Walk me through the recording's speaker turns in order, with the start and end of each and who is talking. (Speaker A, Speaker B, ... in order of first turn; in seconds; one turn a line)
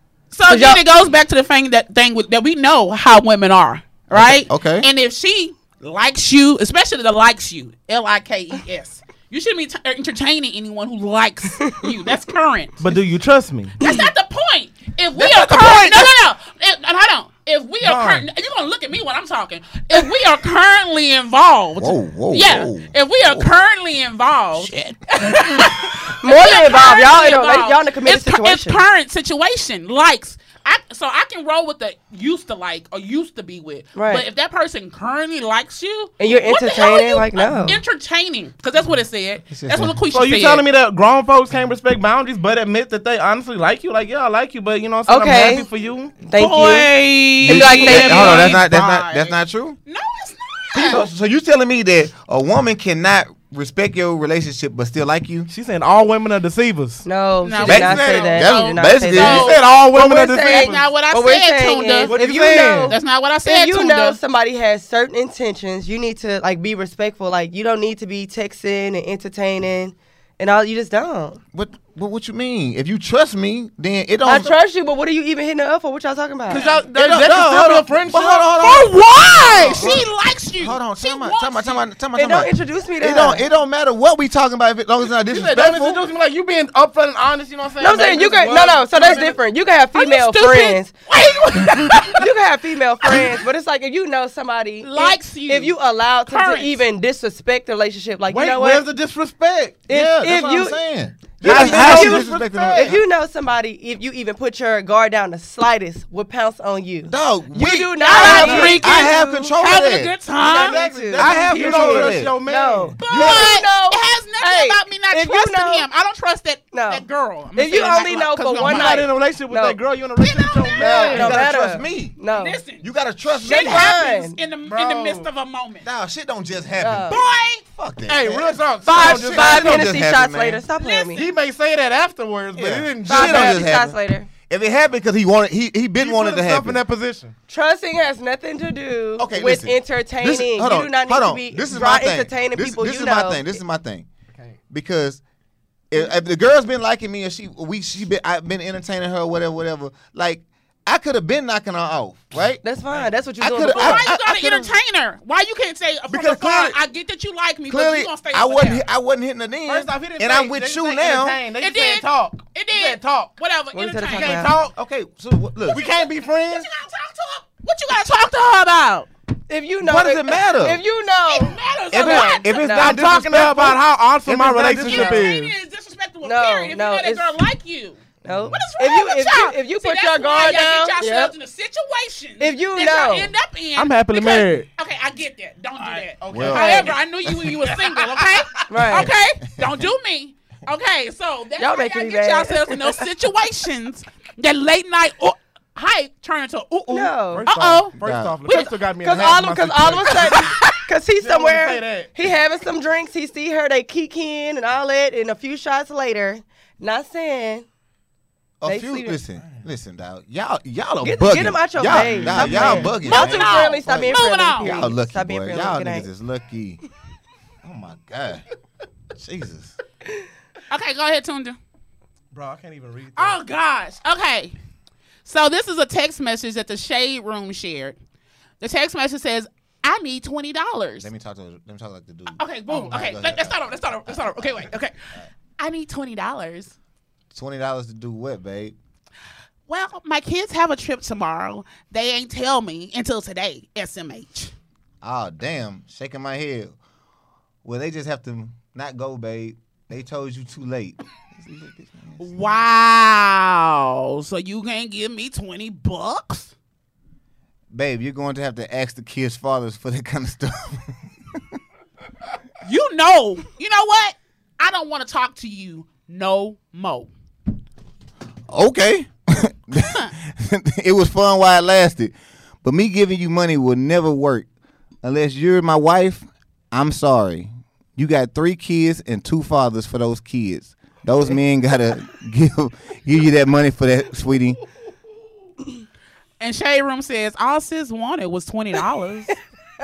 Speaker A: 0.3-12.9
Speaker B: 0.5-0.8
Speaker C: 4.1-4.9
Speaker D: 12.8-13.8
Speaker A: 13.8-40.6
Speaker B: 13.8-14.1
Speaker D: 15.2-16.1
Speaker D: 17.8-18.2
Speaker C: 21.8-23.5
Speaker B: 25.3-28.8
Speaker B: 34.0-34.2
Speaker B: 36.2-37.8
Speaker C: 39.5-40.0
Speaker D: 40.1-46.2
Speaker B: 45.1-45.7
Speaker B: 46.2-48.6
Speaker A: 46.4-51.1
Speaker C: 47.4-49.8
Speaker C: 50.7-55.5
Speaker D: 55.5-57.1
Speaker B: 57.0-71.4
Speaker A: 57.4-59.7
Speaker D: 57.6-58.4
Speaker C: 57.6-59.6
Speaker D: 59.2-60.9
Speaker A: 60.4-62.1
Speaker D: 62.1-63.0
Speaker A: 62.9-64.2
Speaker C: 71.5-74.5
Speaker B: 74.2-76.6
Speaker A: 76.5-76.9
Speaker D: 76.5-78.5
Speaker C: 76.9-80.0
Speaker A: 78.5-81.8
Speaker D: 79.5-80.0
Speaker C: 80.6-86.0
Speaker B: 82.2-83.5
Speaker D: 85.3-89.4
Speaker B: 87.8-90.9
Speaker A: 90.0-92.3
Speaker B: 92.1-98.8
Speaker A: 93.1-93.3
Speaker A: 94.8-95.8
Speaker A: 96.3-96.8
Speaker D: 98.3-99.9
Speaker B: 99.9-100.8
Speaker C: 99.9-103.0
Speaker B: 101.4-109.6
Speaker D: 101.4-103.0
Speaker C: 107.1-110.1
Speaker A: 108.0-110.8
Speaker D: 108.1-108.8
Speaker B: 110.4-115.8
Speaker D: 110.4-113.0
Speaker C: 111.1-112.3
Speaker A: 113.0-119.0
Speaker C: 113.1-113.5
Speaker B: 116.7-117.0
Speaker B: 117.6-119.8
Speaker D: 118.6-121.3
Speaker A: 120.2-121.3
Speaker C: 120.8-122.2
Speaker B: 120.8-122.6
Speaker A: 122.3-122.8
Speaker C: 122.8-123.9
Speaker A: 123.4-125.9
Speaker B: 123.4-124.4
Speaker D: 124.7-125.3
Speaker C: 125.8-130.6
Speaker B: 126.8-127.2
Speaker A: 127.1-127.6
Speaker D: 128.1-129.9
Speaker B: 128.8-131.2
Speaker A: 130.8-131.2
Speaker D: 131.1-133.7
Speaker C: 132.6-134.0
Speaker B: 133.1-134.3
Speaker C: 134.5-136.8
Speaker D: 136.0-137.3
Speaker B: 137.5-143.6
Speaker C: 139.2-144.1
Speaker D: 144.3-144.6
Speaker C: 144.7-145.2
Speaker C: 145.9-152.6
Speaker B: 152.6-154.0
Speaker C: 153.4-154.7
Speaker A: 153.7-158.8
Speaker C: 156.1-156.8
Speaker C: 157.7-161.4
Speaker D: 159.7-163.3
Speaker A: 161.6-164.5
Speaker B: 163.7-164.5
Speaker D: 164.1-164.7
Speaker C: 164.7-165.8
Speaker D: 165.7-166.7
Speaker A: 166.0-169.1
Speaker B: 169.5-173.0
Speaker C: 169.8-170.8
Speaker A: 171.3-172.5
Speaker C: 171.9-174.8
Speaker D: 172.6-175.5
Speaker A: 174.7-198.7
Speaker B: 174.7-175.3
Speaker B: 176.2-177.3
Speaker B: 178.2-181.3
Speaker D: 178.3-178.6
Speaker B: 182.4-183.3
Speaker D: 183.8-184.7
Speaker D: 185.8-187.0
Speaker C: 186.3-187.0
Speaker D: 187.5-188.8
Speaker B: 188.7-189.1
Speaker B: 191.6-193.1
Speaker B: 196.9-197.5
Speaker D: 197.3-202.1
Speaker C: 198.0-198.4
Speaker B: 198.5-207.7
Speaker A: 200.3-200.7
Speaker C: 208.6-216.8
Speaker B: 208.7-209.2
Speaker D: 209.4-209.7
Speaker B: 211.0-216.1
Speaker D: 211.9-212.9
Speaker A: 213.0-214.9
Speaker C: 217.6-218.4
Speaker C: 219.2-219.7
Speaker A: 220.7-221.6
Speaker D: 222.3-223.4
Speaker A: 223.2-224.6
Speaker A: 225.2-228.0
Speaker A: 228.6-231.1
Speaker C: 231.0-235.3
Speaker A: 232.4-234.9
Speaker A: 235.6-236.7
Speaker C: 237.3-238.8
Speaker A: 239.7-244.5
Speaker C: 245.0-246.8
Speaker C: 247.6-252.3
Speaker A: 252.2-256.5
Speaker C: 257.7-261.4
Speaker A: 262.6-267.1
Speaker C: 268.5-272.1
Speaker C: 272.6-274.5
Speaker C: 275.0-284.6
Speaker A: 286.4-289.4